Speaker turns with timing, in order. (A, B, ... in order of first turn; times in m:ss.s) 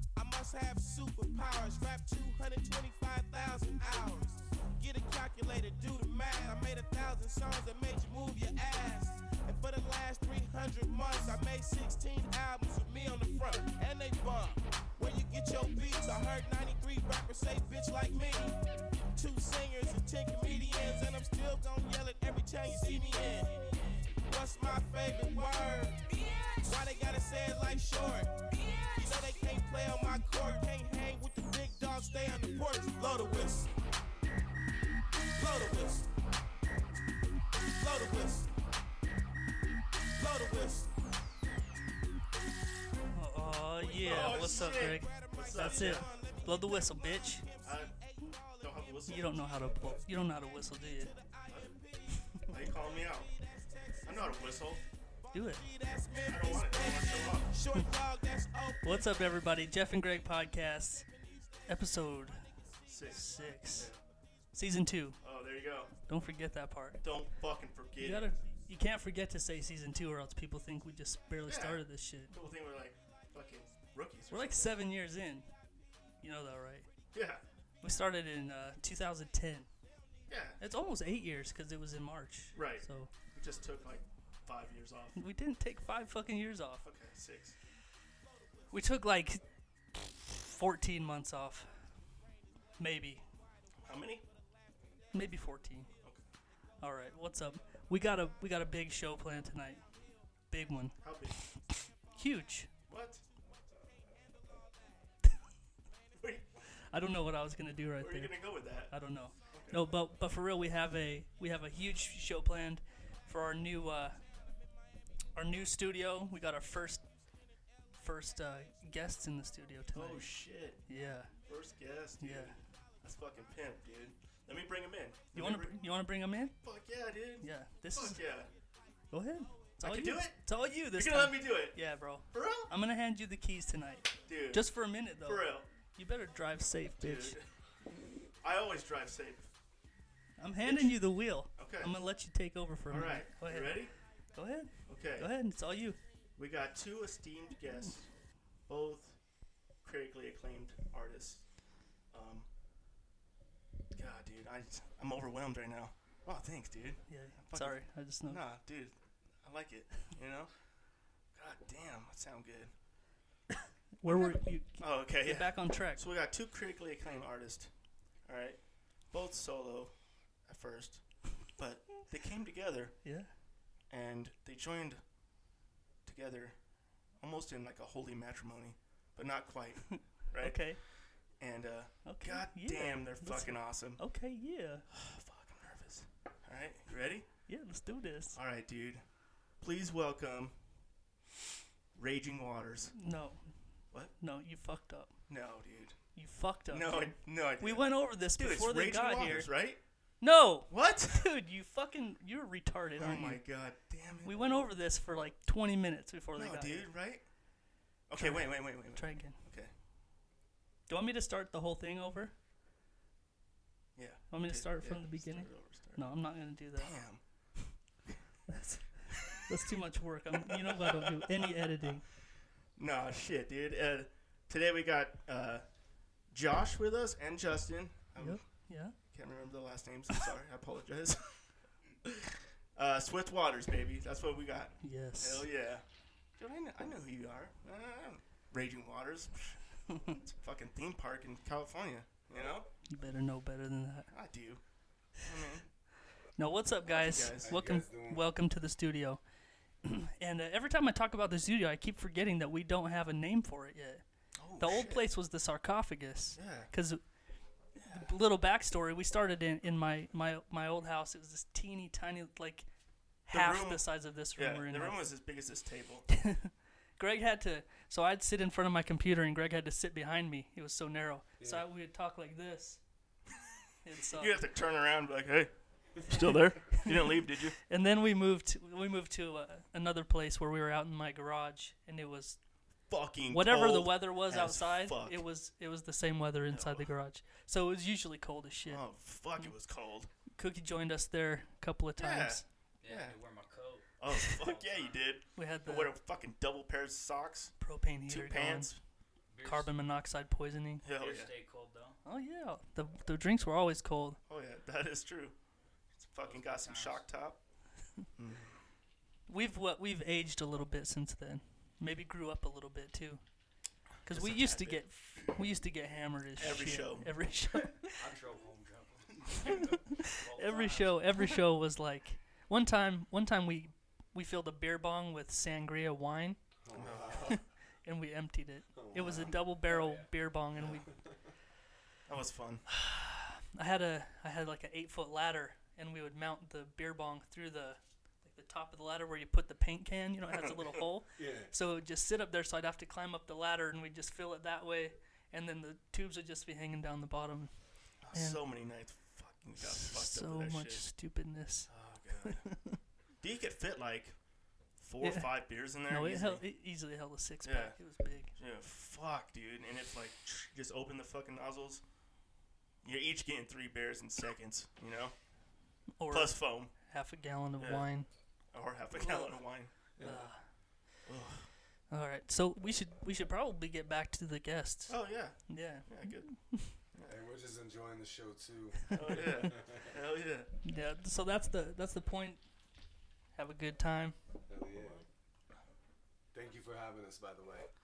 0:00.2-0:18.6 A
0:19.2-0:33.7 A
0:35.3-0:36.1 A
0:37.8-0:38.5 A
0:40.2-0:40.9 A
0:43.1-0:47.4 B
0:43.6-0:59.7 A
0:44.0-0:46.1 C
0:47.6-0:47.9 C
0:48.6-0:49.5 C
0:49.1-0:51.1 B
0:51.5-0:51.8 C
0:52.4-0:53.3 C
0:54.0-0:54.8 C
0:55.3-0:55.6 B
0:56.2-0:57.5 C
0:58.8-1:01.1 B
1:01.2-1:03.7 A
1:01.7-1:02.5 B
1:02.9-1:03.2 C
1:03.1-1:03.9 B
1:03.8-1:04.0 C
1:04.5-1:05.2 B
1:05.2-1:05.9 C
1:06.1-1:07.0 B
1:07.0-1:08.3 C
1:08.0-1:12.4 B
1:11.5-1:14.8 C
1:14.3-1:15.5 B
1:16.2-1:16.9 B
1:17.1-1:17.4 C
1:17.8-1:19.7 B
1:20.3-1:20.6 C
1:20.6-1:23.1 B
1:22.5-1:25.2 C
1:25.2-1:26.9 B
1:26.8-1:27.6 C
1:28.7-1:31.8 B
1:32.8-1:33.2 B
1:33.8-1:34.3 C
1:35.1-1:35.9 B
1:36.8-1:39.8 B
1:40.5-1:42.7 B
1:41.0-1:41.5 C
1:42.9-1:43.2 C
1:46.2-1:46.5 C
1:46.7-1:54.2 B
1:48.0-1:48.9 C
1:49.5-1:49.8 C
1:55.4-1:57.0 B
1:58.0-2:01.3 B
1:59.9-2:00.8 C
2:01.5-2:05.8 C
2:02.2-2:02.6 B
2:05.3-2:06.6 B
2:06.6-2:08.5 C
2:07.4-2:08.2 B
2:09.1-2:17.4 B
2:09.8-2:11.8 C
2:12.3-2:12.7 C
2:14.3-2:14.7 C
2:15.2-2:15.7 C
2:17.0-2:17.5 C
2:18.4-2:19.5 C
2:20.4-2:26.0 B
2:20.6-2:21.0 C
2:21.6-2:21.9 C
2:22.9-2:23.9 C
2:24.9-2:25.3 C
2:26.4-2:28.1 C
2:28.7-2:29.2 C
2:29.8-2:31.4 C
2:32.1-2:32.5 C
2:34.0-2:40.5 C
2:37.1-2:38.4 B
2:41.4-2:42.7 C
2:44.0-2:46.0 B
2:44.0-2:47.7 C
2:48.2-2:53.1 C
2:53.0-2:53.3 B
2:53.9-2:55.0 C
2:56.0-2:56.6 C
2:57.2-3:04.0 C
2:59.9-3:00.8 B
3:02.0-3:04.9 B
3:04.9-3:07.3 C
3:07.5-3:08.4 B
3:08.3-3:09.0 C
3:09.6-3:10.6 C
3:12.0-3:13.0 C
3:13.0-3:13.5 B
3:14.1-3:15.2 B
3:15.3-3:16.0 C
3:16.2-3:19.5 B
3:16.7-3:19.8 C
3:20.2-3:23.6 B
3:20.7-3:21.3 C
3:23.0-3:24.7 C
3:24.2-3:26.9 B
3:26.4-3:27.2 C
3:28.1-3:29.7 C
3:28.2-3:29.4 B
3:30.9-3:32.4 B
3:34.0-3:36.1 C
3:34.3-3:36.9 B
3:36.8-3:37.8 C
3:38.5-3:42.0 B
3:40.5-3:41.6 C
3:42.8-3:45.6 C
3:46.3-3:51.4 C
3:48.2-3:49.0 B
3:52.0-3:55.8 C
3:54.8-3:55.5 B
3:56.4-4:02.7 C
4:02.9-4:04.1 B
4:04.1-4:04.6 C
4:05.1-4:05.7 C
4:06.4-4:09.2 B
4:06.8-4:07.5 C
4:07.4-4:08.3 D
4:09.8-4:14.0 B
4:14.4-4:15.1 C
4:14.6-4:17.0 B
4:16.4-4:16.7 C
4:17.8-4:18.1 C
4:17.9-4:22.7 B
4:23.3-4:25.0 B
4:23.3-4:26.1 C
4:26.1-4:32.8 B
4:31.4-4:31.6 D
4:33.4-4:37.6 C
4:33.8-4:34.4 B
4:36.3-4:37.0 B
4:37.7-4:42.4 B
4:42.9-4:45.2 C
4:43.3-4:48.8 B
4:46.5-4:46.9 C
4:48.6-4:50.1 C
4:50.3-4:52.4 B
4:52.0-4:53.2 C
4:52.8-4:55.0 E
4:54.0-4:58.8 C
4:55.4-4:55.9 B
4:57.6-4:58.8 B
4:59.3-4:59.7 E
4:59.4-5:00.8 B
5:00.8-5:01.3 C
5:01.0-5:02.0 E
5:02.0-5:04.2 B
5:04.3-5:05.4 C
5:05.9-5:07.4 C
5:06.2-5:07.1 E
5:08.2-5:08.6 C
5:09.3-5:13.2 B
5:14.0-5:15.4 C
5:14.1-5:18.0 B
5:16.4-5:17.1 C
5:17.8-5:21.0 E
5:20.3-5:26.4 B
5:26.6-5:27.4 D
5:26.8-5:27.4 C
5:27.1-5:30.9 B
5:28.7-5:29.4 D
5:29.7-5:30.1 E
5:32.1-5:32.7 C
5:32.7-5:48.4 B
5:41.2-5:41.5 D
5:48.0-5:50.9 C
5:49.6-5:51.7 B
5:51.7-5:52.5 C
5:52.2-5:52.8 B
5:53.2-5:54.2 C
5:54.8-5:56.5 C
5:55.0-5:58.3 B
5:57.4-5:57.8 C
5:58.4-6:01.8 C
6:02.8-6:05.1 C
6:06.0-6:08.1 B
6:06.1-6:06.8 C
6:07.6-6:07.9 C
6:08.5-6:10.3 C
6:08.9-6:10.5 B
6:10.0-6:10.3 D
6:11.0-6:11.5 C
6:11.9-6:16.8 B
6:14.9-6:17.2 C
6:17.1-6:20.0 D
6:18.9-6:20.5 C
6:20.6-6:22.4 B
6:23.3-6:24.2 B
6:24.5-6:25.0 D
6:26.3-6:27.7 D